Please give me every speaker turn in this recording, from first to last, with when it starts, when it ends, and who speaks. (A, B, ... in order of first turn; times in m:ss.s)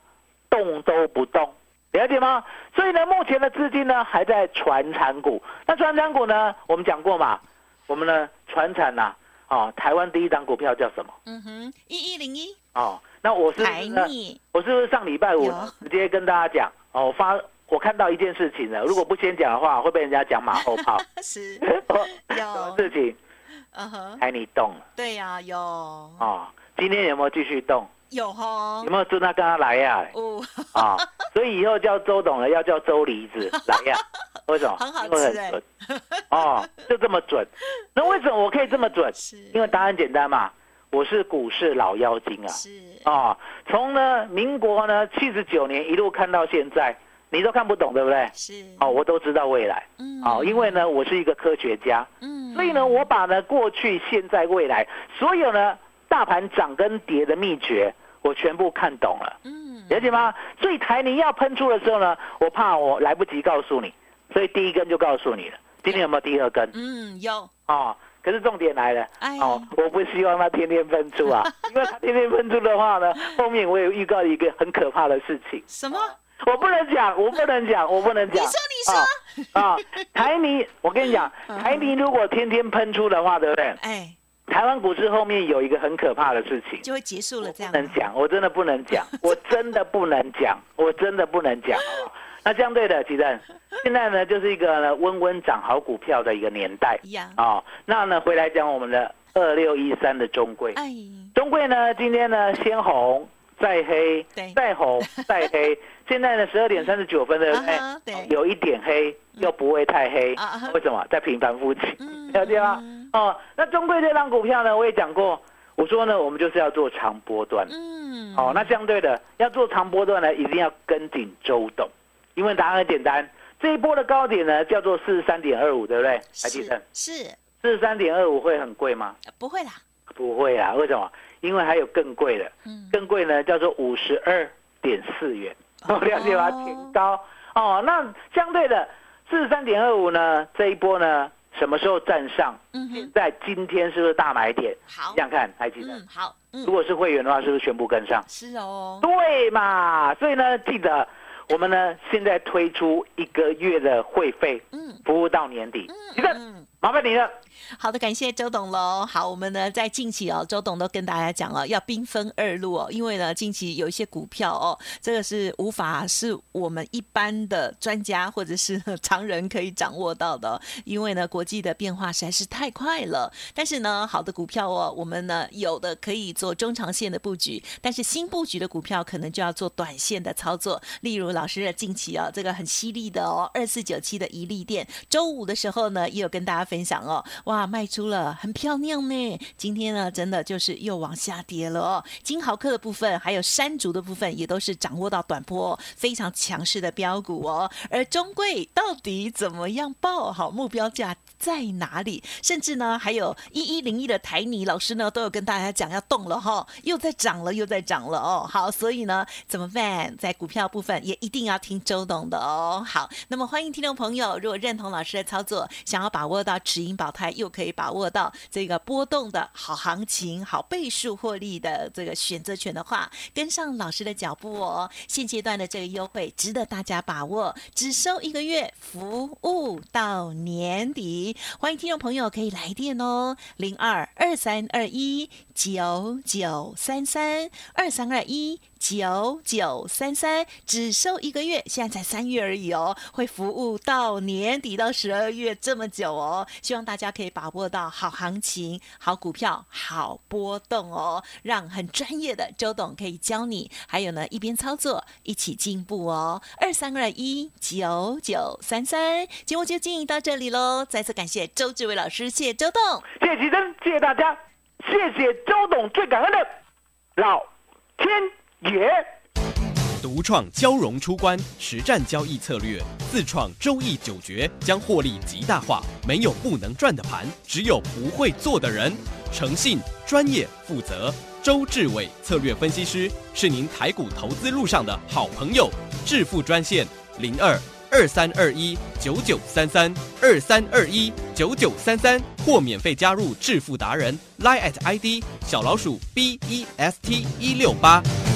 0:00.5-0:11.1 A
0:11.3-0:12.6 B
0:12.8-0:21.0 A
0:13.6-0:14.4 B
0:15.4-0:15.8 B
0:20.5-0:22.9 B
0:21.6-0:23.2 A
0:23.7-0:24.2 B
0:24.2-0:24.8 A
0:25.0-0:26.3 B
0:26.2-0:27.9 A
0:28.1-0:28.9 B
0:28.8-0:30.1 A
0:30.1-0:31.2 B
0:30.7-0:35.6 A
0:33.5-0:34.0 B
0:34.6-0:36.7 B
0:36.3-0:59.4 A
0:38.7-0:39.9 B
0:42.5-0:43.1 B
0:48.4-0:49.0 B
0:50.0-0:50.8 B
0:52.2-0:53.1 B
0:59.4-1:00.3 B
0:59.9-1:06.7 A
1:06.7-1:07.5 B
1:07.7-1:23.8 A
1:09.2-1:09.7 B
1:11.2-1:11.7 B
1:15.7-1:16.2 B
1:18.3-1:20.1 B
1:21.0-1:21.9 B
1:23.8-1:24.2 B
1:24.5-1:26.8 A
1:26.8-1:28.1 B
1:27.4-1:40.8 A
1:37.0-1:37.4 B
1:40.8-1:41.4 B
1:41.3-1:57.7 A
1:44.4-1:45.5 B
1:47.5-1:48.4 B
1:50.4-1:50.8 B
1:52.0-1:53.1 B
1:57.7-1:58.8 B
1:58.4-2:06.8 A
2:06.4-2:07.4 B
2:07.6-2:09.2 A
2:09.3-2:09.8 B
2:10.2-2:26.0 A
2:12.6-2:13.0 B
2:15.8-2:17.0 B
2:22.7-2:23.1 B
2:24.9-2:25.2 B
2:25.8-2:26.7 B
2:26.6-2:28.3 A
2:28.3-2:29.1 B
2:29.0-2:37.3 A
2:34.7-2:35.0 B
2:35.9-2:36.7 B
2:37.6-4:23.1 B
4:23.2-4:26.5 A
4:27.2-4:29.1 A
4:30.0-4:58.1 C